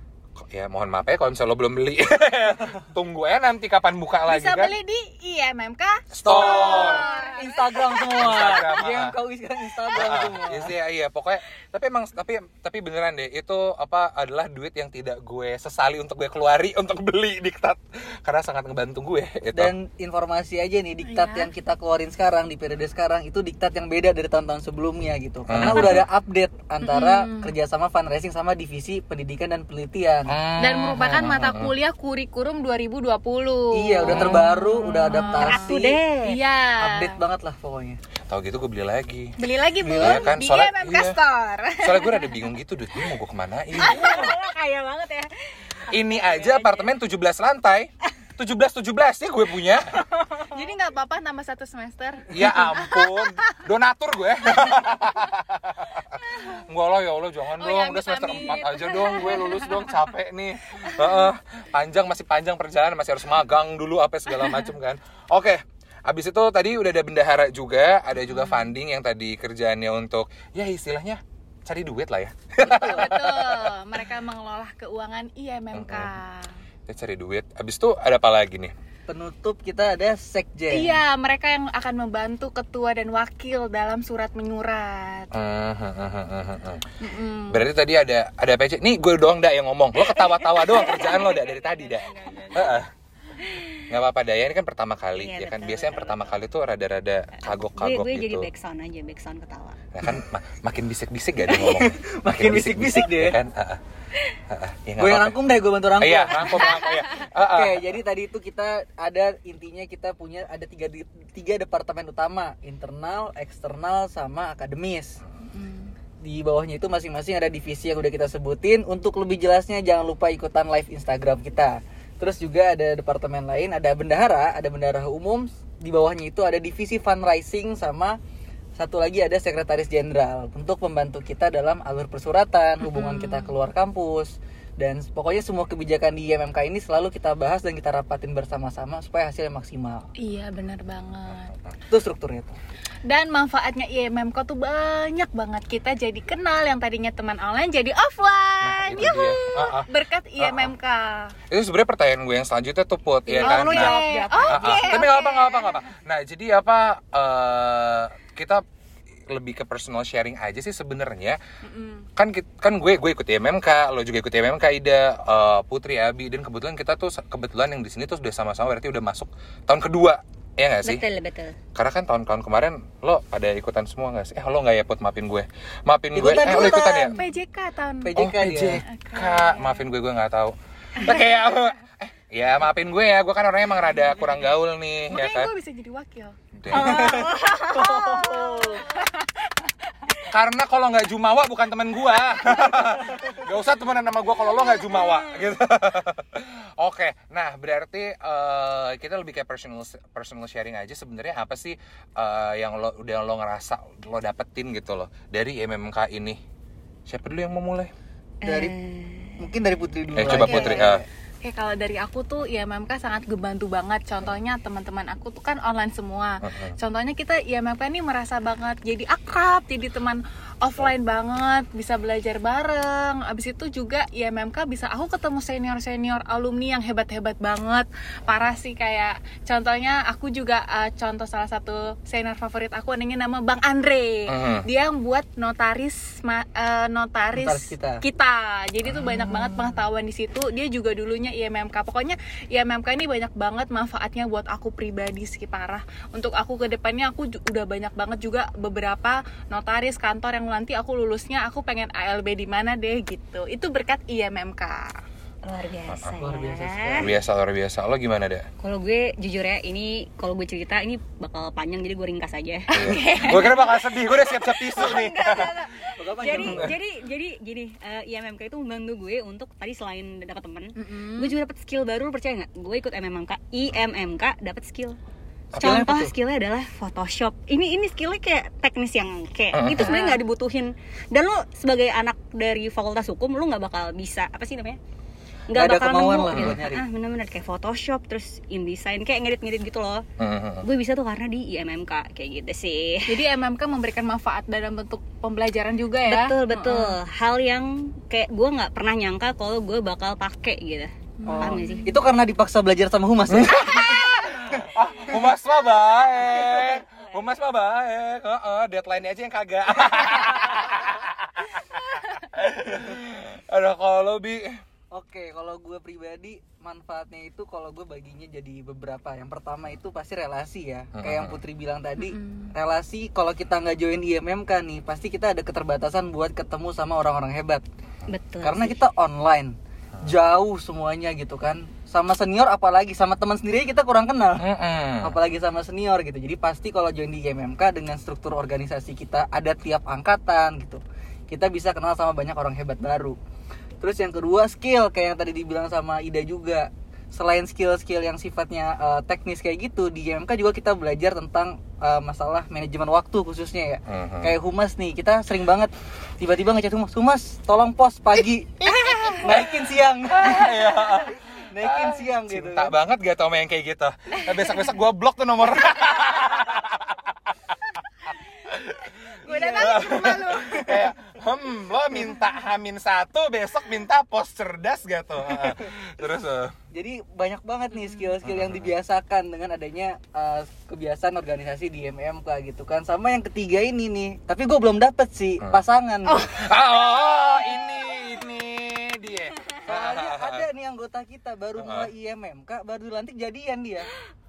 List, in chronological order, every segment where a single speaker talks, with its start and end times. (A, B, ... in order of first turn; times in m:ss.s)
0:00.4-0:04.7 A
0:04.3-0:08.0 B
0:06.1-0:07.1 A
0:06.2-0:10.7 C
0:08.1-0:09.1 A
0:09.9-0:19.7 A
0:19.5-0:30.4 C
0:21.0-0:21.5 B
0:25.5-0:26.0 A
0:25.5-0:26.0 D
0:26.8-0:27.5 B
0:30.3-0:31.7 A
0:30.6-0:37.1 B
0:33.7-0:36.0 C
0:34.1-0:34.4 A
0:34.3-0:36.4 D
0:36.8-0:38.0 C
0:38.3-0:39.3 A
0:39.4-0:42.2 B
0:39.8-0:40.3 C
0:40.0-0:41.2 A
0:41.8-0:44.4 A
0:43.8-0:45.3 D
0:45.9-0:47.0 D
0:45.9-0:50.0 A
0:49.9-0:50.5 D
0:50.4-0:53.6 B
0:52.3-1:13.7 A
0:56.2-0:56.6 B
0:57.6-1:00.0 B
1:00.9-1:01.2 B
1:08.3-1:08.7 B
1:12.6-1:16.5 B
1:15.7-1:16.1 A
1:16.9-1:18.7 A
1:19.1-1:21.0 C
1:20.7-1:25.3 B
1:25.3-1:26.8 A
1:27.0-1:27.6 B
1:27.5-1:32.9 A
1:30.0-1:32.8 D
1:33.4-1:33.8 D
1:33.9-1:38.5 A
1:35.1-1:36.4 D
1:37.4-1:39.8 D
1:39.9-1:43.8 A
1:41.6-1:43.4 C
1:44.5-1:45.4 A
1:45.0-1:46.7 C
1:45.9-1:47.8 A
1:46.5-1:47.2 B
1:47.4-1:55.2 C
1:55.5-1:55.9 B
1:56.2-2:08.2 C
2:08.8-2:20.0 C
2:12.8-2:13.5 B
2:20.2-2:21.5 B
2:21.9-2:22.5 C
2:23.1-2:31.3 B
2:28.6-2:29.9 A
2:30.4-2:30.7 A
2:31.5-2:38.6 A
2:33.3-2:35.1 D
2:33.4-2:35.8 B
2:39.3-2:41.4 A
2:41.6-2:42.1 B
2:42.2-2:51.0 A
2:50.8-2:51.6 D
2:51.7-2:57.2 A
2:56.1-2:57.2 C
2:56.2-2:58.2 B
2:58.0-2:58.8 C
2:58.2-3:05.5 A
2:58.8-2:59.8 B
3:05.1-3:06.4 B
3:06.6-3:07.3 A
3:06.7-3:08.9 D
3:06.7-3:08.9 C
3:08.8-3:10.2 B
3:10.3-3:26.4 A
3:14.5-3:15.2 D
3:27.1-3:27.9 A
3:28.4-3:29.5 D
3:28.4-3:28.7 C
3:29.4-3:31.0 C
3:30.1-3:31.0 A
3:30.2-3:30.7 D
3:30.4-3:30.8 B
3:31.4-4:15.0 B
3:36.4-3:36.8 A
3:54.3-3:54.6 A
3:57.3-3:58.0 C
3:58.9-3:59.8 A
4:15.4-4:17.1 D
4:15.9-4:16.1 A
4:16.2-4:17.2 C
4:17.0-4:18.5 A
4:18.6-4:35.0 D
4:22.7-4:23.9 B
4:22.7-4:25.5 A
4:24.8-4:25.1 B
4:26.0-4:26.7 C
4:26.3-4:26.7 A
4:30.8-4:31.3 B
4:35.5-4:36.1 C
4:35.5-4:35.9 A
4:35.6-4:44.8 D
4:39.5-4:39.9 A
4:39.8-4:40.2 B
4:45.5-4:50.0 D
4:45.5-4:46.8 C
4:50.2-4:50.6 A
4:50.6-4:53.2 D
4:53.1-4:57.0 B
4:56.0-5:02.0 D
5:01.2-5:01.9 B
5:01.3-5:03.8 C
5:03.3-5:14.6 A
5:11.7-5:12.1 B
5:14.9-5:27.6 C
5:20.9-5:21.4 A
5:22.0-5:22.5 B
5:28.1-5:28.8 D
5:28.4-5:43.2 C
5:34.4-5:35.1 A
5:43.8-6:02.8 C
5:53.9-5:54.3 A
5:58.6-6:07.3 A
6:08.4-6:16.5 A
6:09.2-6:10.8 B
6:09.4-6:10.0 C
6:16.7-6:26.3 C
6:17.8-6:18.1 B
6:18.2-6:18.7 A
6:26.2-6:30.4 A
6:29.6-6:33.9 C
6:31.6-6:31.9 A